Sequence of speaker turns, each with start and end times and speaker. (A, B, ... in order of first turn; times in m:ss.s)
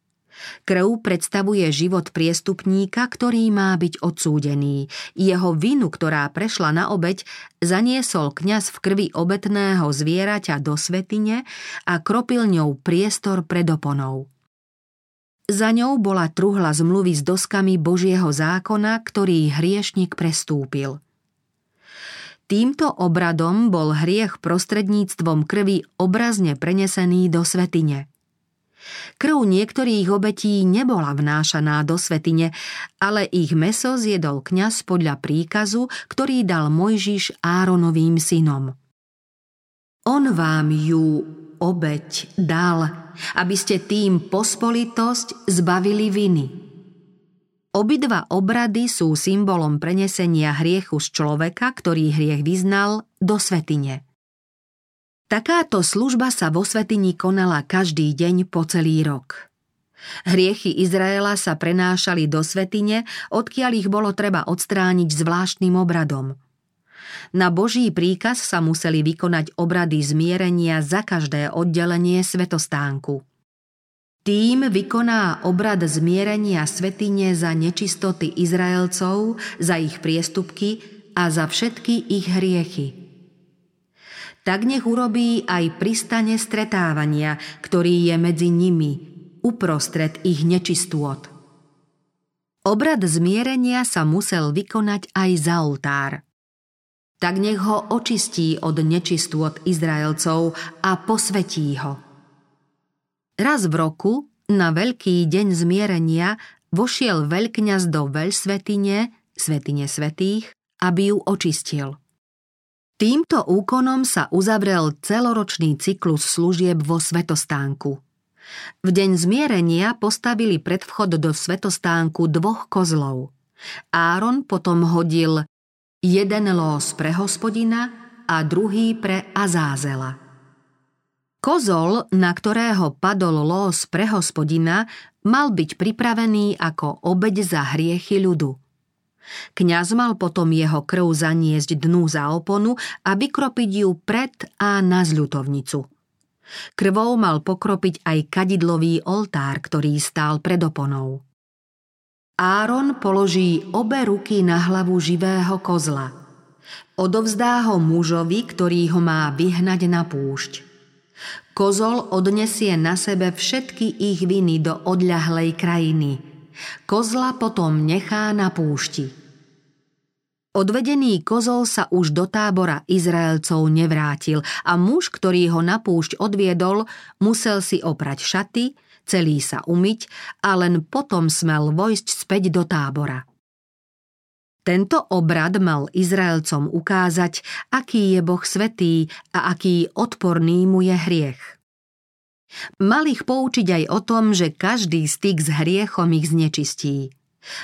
0:00.6-0:14.3 A
0:15.5-0:21.0 A
0:22.5-0:28.1 A
0:29.2-0:38.8 A
0:40.1-0:46.6 A
0:47.7-0:54.0 A
0:55.3-0:59.5 A
1:00.3-1:06.4 A
1:07.3-1:13.2 A
1:14.2-1:23.0 A
1:24.4-1:31.3 A
1:32.6-1:36.2 A
1:37.2-1:42.0 A
1:43.4-1:52.0 A
1:53.0-1:58.0 A
1:58.8-2:03.3 A
2:03.9-2:05.5 A
2:06.0-2:10.2 A
2:11.4-2:18.6 A
2:19.6-2:25.9 A
2:26.8-2:31.2 A
2:32.4-2:36.2 A
2:37.0-2:40.7 A
2:41.5-2:46.2 A
2:46.9-2:49.2 A
2:50.6-3:03.2 A
3:04.6-3:11.6 A
3:12.8-3:17.1 A